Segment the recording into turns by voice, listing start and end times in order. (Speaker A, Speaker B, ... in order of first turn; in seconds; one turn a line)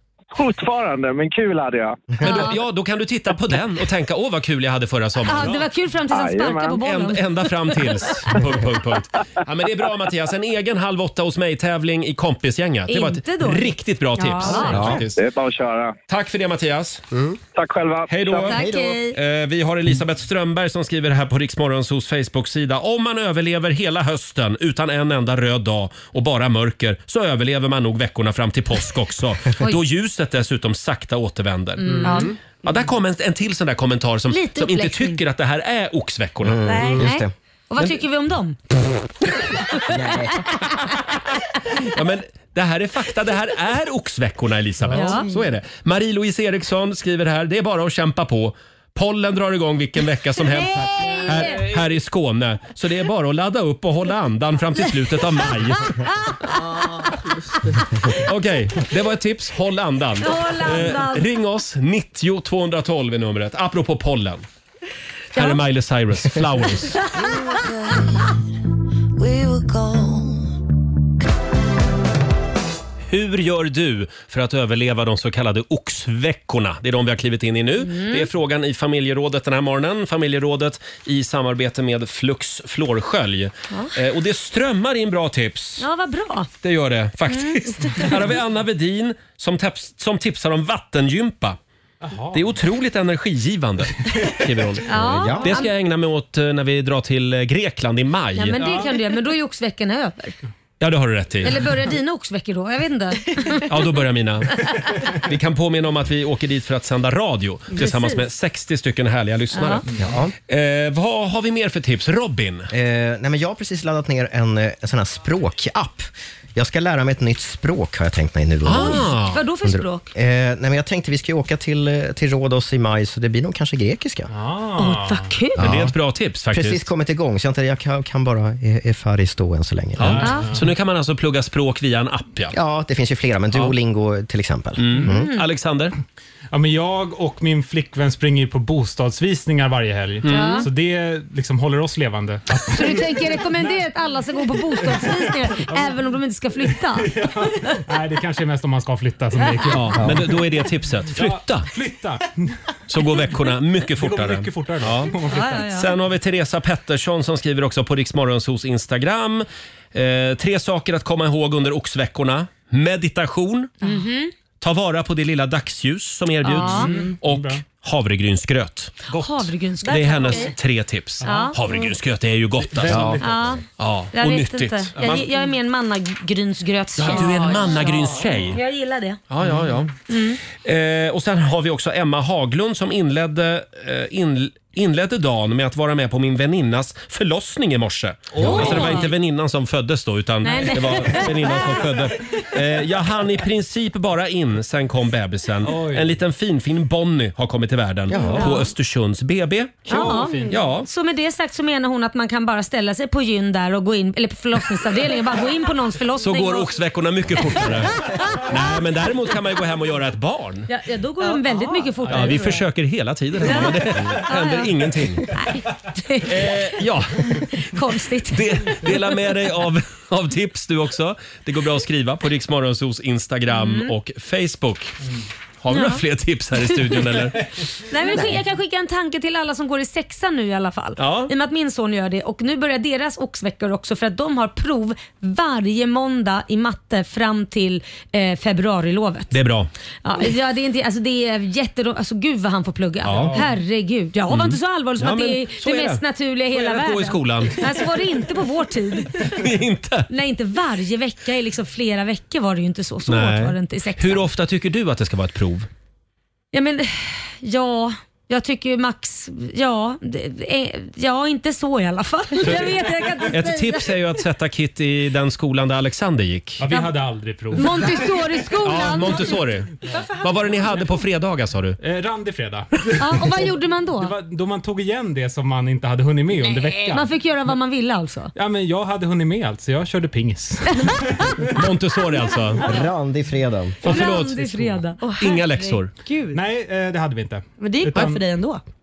Speaker A: 0.3-2.1
Speaker B: 2.2-5.6
Speaker C: 2.2-2.6
Speaker C: 5.2-8.2
Speaker A: 6.1-6.8
Speaker B: 6.8-15.2
Speaker C: 12.9-13.7
Speaker D: 14.2-15.0
Speaker C: 14.4-14.9
Speaker E: 14.7-15.0
Speaker A: 14.9-16.0
Speaker B: 16.1-17.0
Speaker A: 17.5-18.6
Speaker B: 18.1-37.0
Speaker C: 18.4-19.2
Speaker E: 18.5-19.0
Speaker C: 31.8-32.3
Speaker D: 32.0-32.3
Speaker C: 34.3-35.2
Speaker E: 36.4-37.3
Speaker D: 36.7-37.1
Speaker C: 37.0-38.6
Speaker C: 39.7-40.7
Speaker E: 39.9-40.5
Speaker B: 41.8-56.1
Speaker C: 44.9-45.3
Speaker C: 50.5-51.7
Speaker C: 56.0-56.5
Speaker B: 58.1-64.4
Speaker C: 60.2-61.3
Speaker B: 65.3-67.1
Speaker C: 67.1-67.5
Speaker F: 67.5-68.3
Speaker F: 69.2-70.6
Speaker B: 73.1-85.8
Speaker C: 77.8-78.3
Speaker C: 85.8-86.5
Speaker B: 86.6-91.6
Speaker C: 87.3-88.2
Speaker G: 92.0-92.5
Speaker B: 92.3-98.6
Speaker C: 94.9-95.7
Speaker E: 94.9-95.6
Speaker C: 98.4-100.3
Speaker G: 98.6-99.0
Speaker B: 100.8-101.7
Speaker C: 101.4-103.7
Speaker B: 103.7-110.0
Speaker C: 107.8-108.2
Speaker C: 109.5-109.8
Speaker E: 110.0-110.3
Speaker B: 110.5-112.7
Speaker E: 112.7-124.3
Speaker B: 118.6-119.4
Speaker C: 118.7-120.1
Speaker G: 124.3-125.3
Speaker C: 124.8-125.6
Speaker E: 125.6-125.9
Speaker B: 125.6-126.9
Speaker E: 126.5-130.4
Speaker B: 130.0-132.6
Speaker G: 130.0-130.7
Speaker C: 130.2-130.5
Speaker E: 132.5-135.3
Speaker B: 134.8-135.9
Speaker G: 136.5-143.7
Speaker B: 140.2-140.7
Speaker C: 140.3-140.7
Speaker C: 142.7-147.7
Speaker G: 144.8-146.0
Speaker G: 146.9-150.2
Speaker B: 149.7-151.7
Speaker E: 150.0-150.2
Speaker G: 151.1-152.6
Speaker B: 152.9-163.7
Speaker G: 153.9-155.8
Speaker C: 155.3-155.9
Speaker C: 163.8-164.3
Speaker B: 164.6-169.0
Speaker C: 166.4-166.9
Speaker G: 166.6-167.6
Speaker G: 169.1-169.9
Speaker C: 169.2-170.5
Speaker B: 169.8-173.2
Speaker G: 171.2-171.9
Speaker C: 171.2-171.6
Speaker G: 172.6-173.3
Speaker E: 172.9-173.2
Speaker C: 173.2-177.9
Speaker B: 173.8-175.3
Speaker G: 175.0-175.2
Speaker B: 177.0-178.6
Speaker G: 177.5-178.6
Speaker C: 178.5-179.2
Speaker B: 179.3-179.9
Speaker G: 179.5-179.8
Speaker C: 180.1-180.4
Speaker B: 180.5-200.9
Speaker G: 188.3-189.1
Speaker C: 188.5-189.1
Speaker C: 190.4-191.9
Speaker G: 195.6-196.2
Speaker E: 198.1-198.5
Speaker C: 198.4-198.7
Speaker C: 199.9-206.7
Speaker G: 199.9-200.8
Speaker B: 206.2-210.7
Speaker C: 208.2-208.6
Speaker C: 210.7-212.6
Speaker D: 211.5-211.9
Speaker G: 212.0-212.6
Speaker B: 212.1-215.4
Speaker C: 213.4-216.6
Speaker B: 216.2-217.4
Speaker C: 217.3-218.9
Speaker B: 218.3-225.0
Speaker C: 223.5-223.9
Speaker B: 225.6-227.4
Speaker C: 225.7-226.0
Speaker C: 227.8-239.4
Speaker B: 231.0-231.3
Speaker B: 239.3-239.7
Speaker C: 240.0-249.4
Speaker B: 243.0-243.4
Speaker G: 243.1-243.5
Speaker B: 244.3-247.7
Speaker B: 249.2-250.1
Speaker C: 250.1-254.3
Speaker B: 253.1-255.7
Speaker C: 256.5-263.9
Speaker G: 262.4-263.2
Speaker B: 263.3-266.7
Speaker G: 266.6-268.5
Speaker C: 267.5-269.4
Speaker B: 268.6-271.8
Speaker G: 269.1-270.9
Speaker G: 271.8-277.1
Speaker C: 273.0-274.1
Speaker C: 276.9-278.3
Speaker G: 278.4-281.6
Speaker C: 280.7-281.4
Speaker B: 281.5-282.7
Speaker E: 282.6-283.9
Speaker B: 283.8-285.9
Speaker C: 283.9-285.0
Speaker G: 283.9-284.2
Speaker D: 285.0-286.4
Speaker G: 286.3-288.2
Speaker D: 287.6-288.6